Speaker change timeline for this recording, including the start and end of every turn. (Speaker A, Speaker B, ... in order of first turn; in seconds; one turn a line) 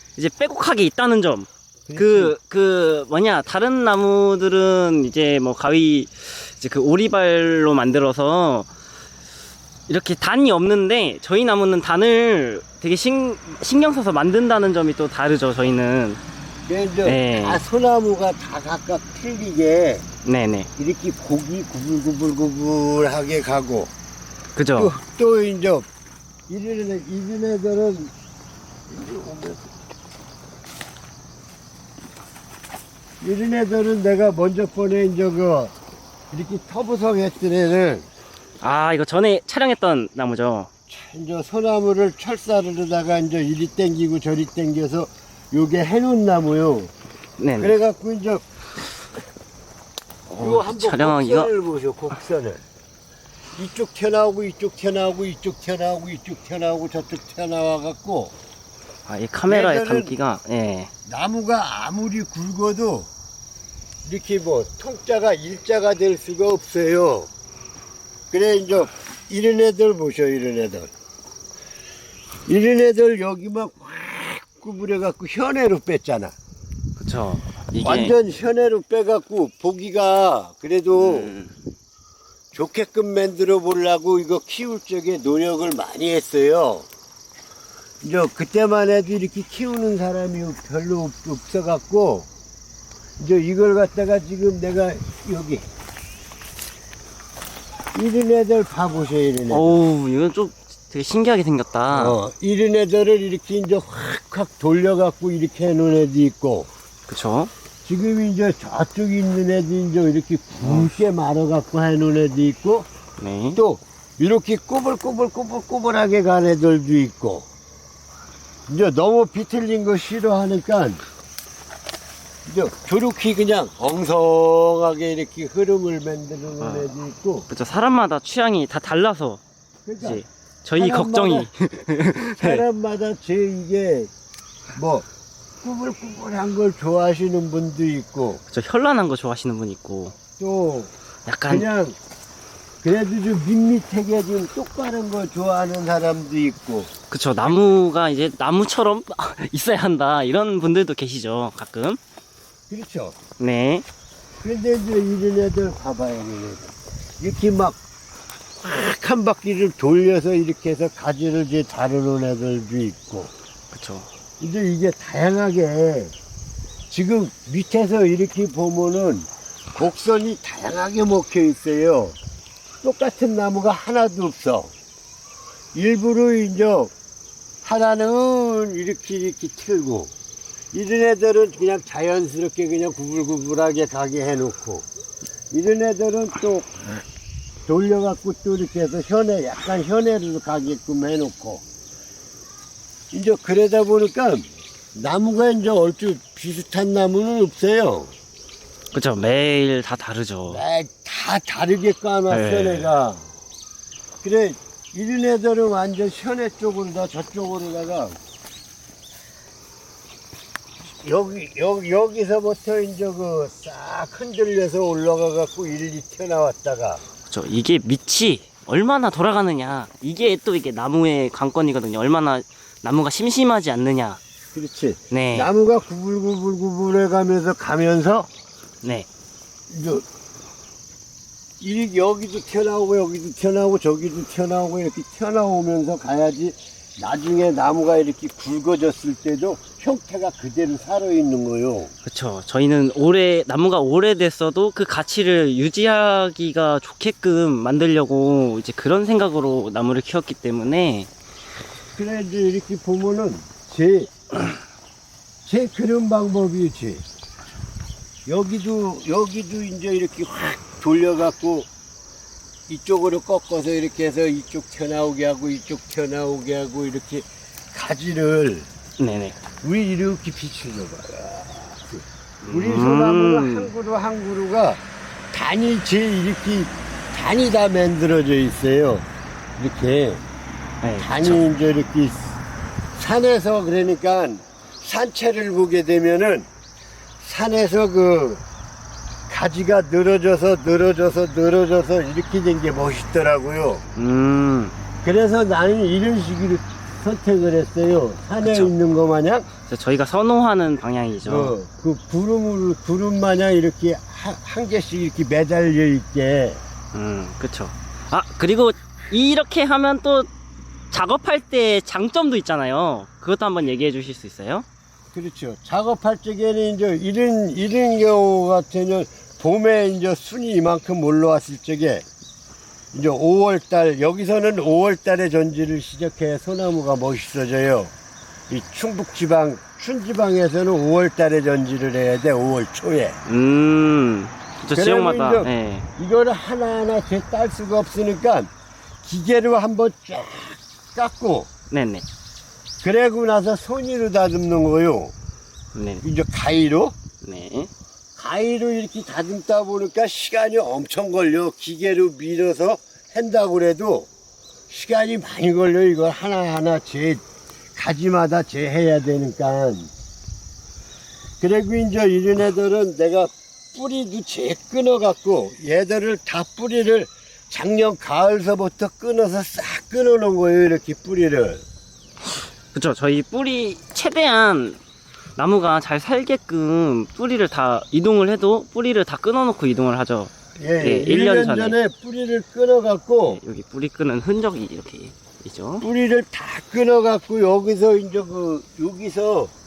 Speaker A: 0.2-8.7
Speaker B: 1.9-2.3
Speaker A: 9.9-16.2
Speaker B: 16.7-20.1
Speaker A: 17.0-17.6
Speaker A: 20.2-20.7
Speaker B: 20.8-23.9
Speaker A: 24.6-24.9
Speaker B: 24.7-25.9
Speaker B: 26.5-28.1
Speaker B: 28.9-29.7
Speaker B: 33.2-35.7
Speaker B: 36.3-38.1
Speaker A: 38.6-40.7
Speaker B: 40.9-46.9
Speaker A: 47.4-47.8
Speaker B: 47.6-48.4
Speaker A: 50.3-51.5
Speaker B: 50.4-52.6
Speaker B: 53.5-58.3
Speaker A: 59.1-60.9
Speaker B: 59.5-60.1
Speaker B: 61.1-63.1
Speaker B: 64.0-67.3
Speaker B: 68.3-70.9
Speaker B: 72.5-76.3
Speaker A: 77.0-78.2
Speaker B: 77.8-81.3
Speaker A: 80.9-81.5
Speaker B: 82.5-86.9
Speaker B: 88.0-92.3
Speaker B: 93.2-95.6
Speaker B: 97.9-99.8
Speaker A: 99.5-102.2
Speaker B: 101.9-106.7
Speaker A: 107.1-107.5
Speaker B: 107.8-112.9
Speaker A: 110.6-110.9
Speaker A: 113.2-113.6
Speaker B: 113.5-117.5
Speaker B: 118.7-121.0
Speaker B: 122.5-127.5
Speaker A: 126.6-126.9
Speaker A: 127.5-129.4
Speaker B: 129.8-130.2
Speaker A: 130.0-132.6
Speaker B: 130.8-131.5
Speaker B: 132.3-134.1
Speaker B: 134.7-135.1
Speaker B: 135.6-138.4
Speaker A: 138.5-140.2
Speaker B: 140.4-140.9
Speaker A: 141.2-141.7
Speaker B: 141.5-142.0
Speaker B: 142.8-146.9
Speaker A: 147.1-152.0
Speaker B: 152.7-153.2
Speaker A: 153.4-153.8
Speaker B: 154.4-157.8
Speaker B: 158.6-163.3
Speaker A: 163.7-164.1
Speaker B: 164.4-166.1
Speaker B: 166.9-172.2
Speaker B: 172.8-174.7
Speaker B: 175.7-176.9
Speaker B: 177.6-180.1
Speaker B: 180.7-184.8
Speaker B: 185.5-187.0
Speaker B: 187.7-191.6
Speaker B: 193.1-198.1
Speaker A: 198.9-200.6
Speaker B: 200.4-203.2
Speaker A: 202.3-202.9
Speaker B: 204.2-208.2
Speaker B: 211.0-217.0
Speaker A: 217.3-224.2
Speaker B: 224.5-228.3
Speaker A: 225.1-225.5
Speaker A: 228.8-229.1
Speaker B: 229.7-230.0
Speaker B: 231.6-241.9
Speaker A: 242.0-251.1
Speaker B: 252.0-254.1
Speaker B: 255.4-257.0
Speaker B: 258.3-261.7
Speaker B: 262.7-268.7
Speaker A: 269.0-269.4
Speaker B: 269.6-274.8
Speaker A: 272.4-273.7
Speaker B: 275.3-279.1
Speaker B: 279.6-280.2
Speaker A: 280.8-281.4
Speaker B: 281.0-282.4
Speaker B: 282.9-286.5
Speaker B: 287.2-288.4
Speaker B: 289.3-293.8
Speaker A: 293.9-294.8
Speaker B: 295.0-299.5
Speaker A: 298.4-298.7
Speaker A: 299.7-301.5
Speaker B: 301.2-306.6
Speaker A: 306.9-310.3
Speaker A: 310.9-314.6
Speaker B: 315.1-322.1
Speaker B: 322.9-327.9
Speaker B: 328.5-333.2
Speaker A: 333.2-335.9
Speaker B: 334.7-338.5
Speaker B: 339.0-341.5
Speaker A: 341.7-342.0
Speaker B: 342.8-345.1
Speaker A: 345.7-346.0
Speaker B: 346.0-346.9
Speaker A: 347.2-347.7
Speaker B: 348.1-354.1
Speaker B: 354.7-357.2
Speaker B: 357.7-359.9
Speaker B: 361.4-371.6
Speaker A: 372.7-374.8
Speaker A: 375.4-381.8
Speaker B: 380.6-383.4
Speaker A: 383.2-385.9
Speaker B: 385.8-389.5